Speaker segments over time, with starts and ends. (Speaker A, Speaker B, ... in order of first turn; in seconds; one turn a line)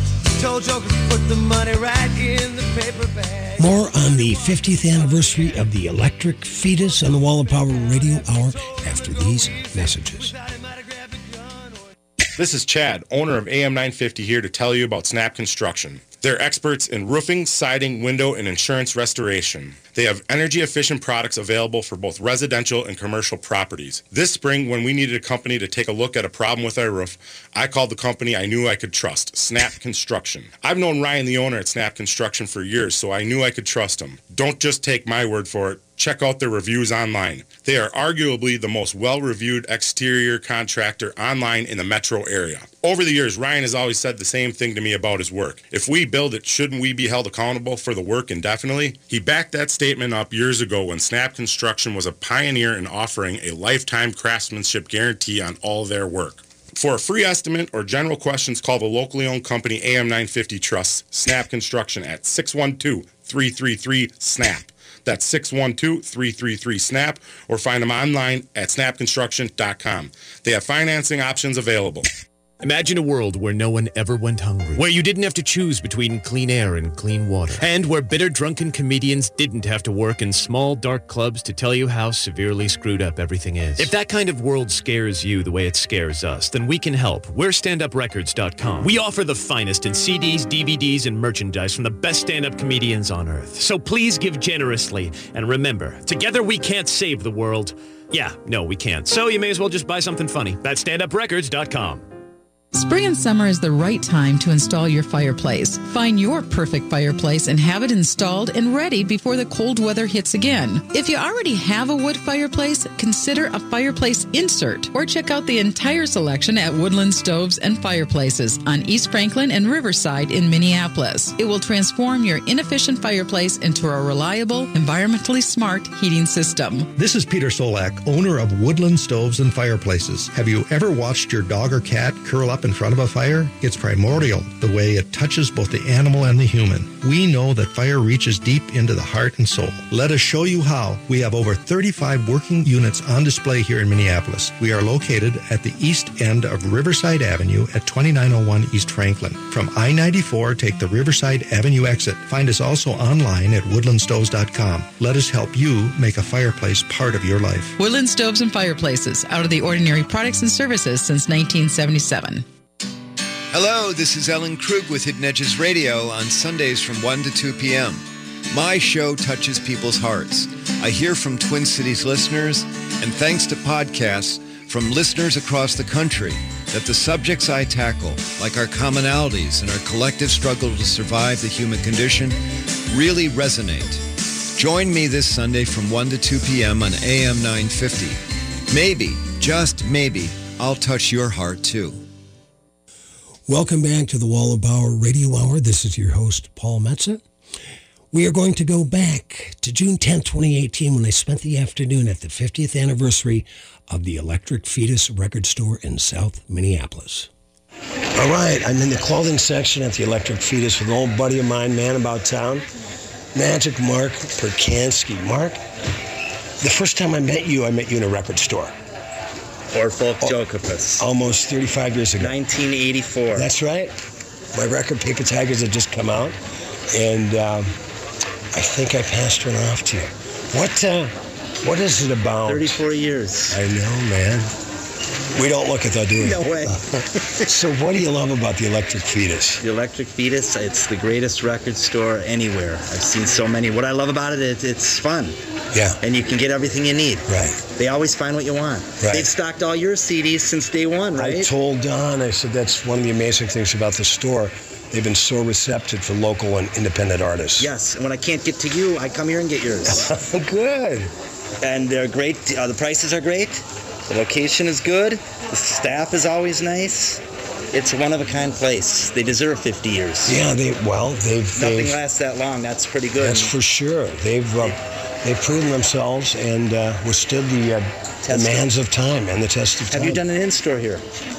Speaker A: 0.3-5.7
Speaker B: 3.6-10.3
Speaker A: 6.8-11.9
Speaker C: 12.3-72.1
Speaker D: 72.6-102.0
Speaker E: 102.7-126.9
Speaker F: 127.0-157.7
Speaker E: 157.8-162.4
Speaker G: 163.5-192.0
Speaker B: 193.5-197.2
Speaker B: 198.1-207.3
Speaker B: 208.1-212.7
Speaker B: 213.3-215.6
Speaker B: 216.6-218.7
Speaker H: 219.7-221.1
Speaker B: 221.0-222.3
Speaker H: 222.2-223.5
Speaker B: 223.3-223.9
Speaker B: 224.5-226.4
Speaker B: 226.9-227.7
Speaker B: 228.5-232.8
Speaker H: 232.5-233.6
Speaker B: 233.5-234.5
Speaker B: 235.3-236.8
Speaker H: 236.2-236.8
Speaker B: 237.4-239.6
Speaker H: 239.6-245.4
Speaker B: 245.7-246.0
Speaker H: 246.0-251.5
Speaker B: 247.3-247.6
Speaker B: 249.0-249.3
Speaker B: 251.1-257.7
Speaker H: 257.6-260.1
Speaker B: 259.9-261.1
Speaker H: 261.6-267.2
Speaker H: 267.7-270.4
Speaker B: 270.2-272.0
Speaker H: 271.5-273.5
Speaker B: 273.2-280.2
Speaker H: 278.2-278.7
Speaker H: 279.9-281.0